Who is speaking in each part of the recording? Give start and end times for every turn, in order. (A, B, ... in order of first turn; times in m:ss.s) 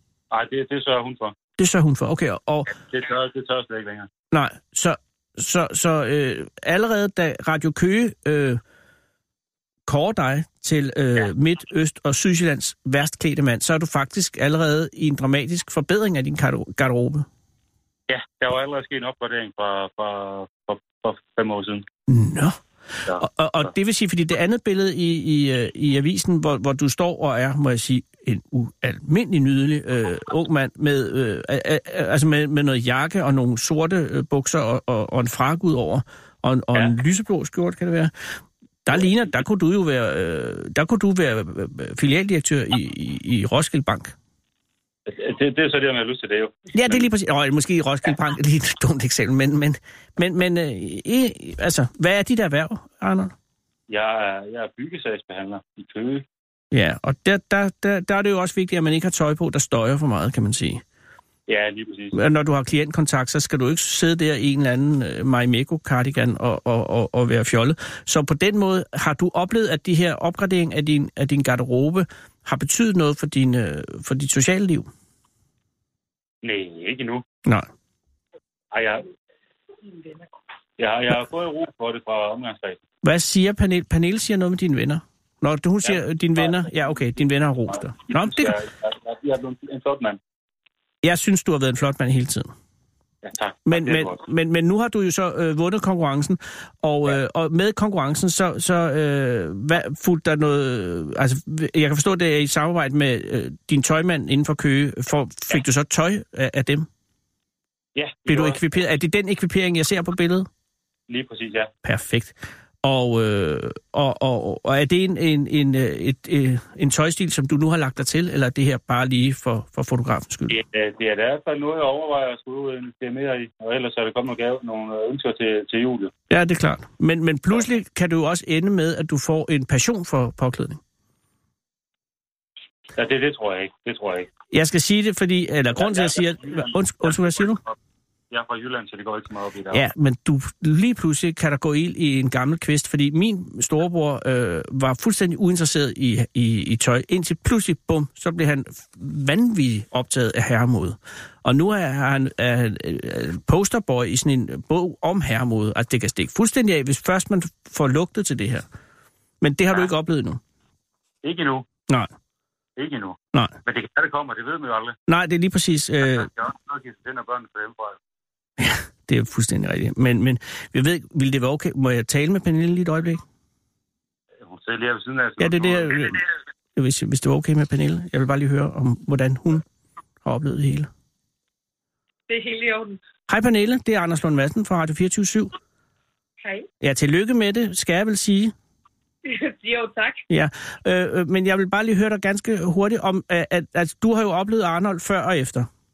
0:00.3-0:01.3 A
0:01.6-0:02.7 B
0:02.7-0:04.1 A
0:04.3-0:08.6 B
0:09.9-0:17.2 B
0:18.1-0:21.8 A
0:22.1-0:38.1 B
0:38.8-0:44.1 B
0:45.1-0:47.0 A
0:46.7-0:53.3 B
0:53.9-0:56.2 A
0:56.7-1:00.8 B
1:01.5-1:02.2 A
1:02.1-1:14.9 B
1:16.4-1:17.2 A
1:18.7-1:19.1 A
1:20.8-1:22.8 A
1:23.0-1:28.6 B
1:25.8-1:26.7 A
1:27.9-1:30.2 A
1:31.0-1:32.5 B
1:33.2-1:34.2 A
1:33.7-1:46.9 B
1:48.0-1:48.6 A
1:48.3-1:50.5 B
1:51.1-1:51.7 A
1:51.8-2:00.6 B
2:00.5-2:06.1 A
2:06.3-2:10.8 B
2:12.9-2:14.3 A
2:14.5-2:17.6 B
2:15.7-2:17.7 A
2:18.3-2:19.8 A
2:19.7-2:38.6 B
2:39.4-2:40.4 B
2:41.2-2:41.7 A
2:42.8-2:45.0 A
2:45.1-2:46.3 B
2:46.0-2:48.0 A
2:48.6-2:53.2 B
2:54.4-2:56.2 A
2:55.4-2:56.2 B
2:56.8-2:59.6 B
3:00.2-3:00.9 B
3:02.3-3:03.0 C
3:03.3-3:05.5 B
3:06.4-3:06.7 C
3:06.8-3:08.5 B
3:09.2-3:10.2 C
3:10.3-3:15.7 B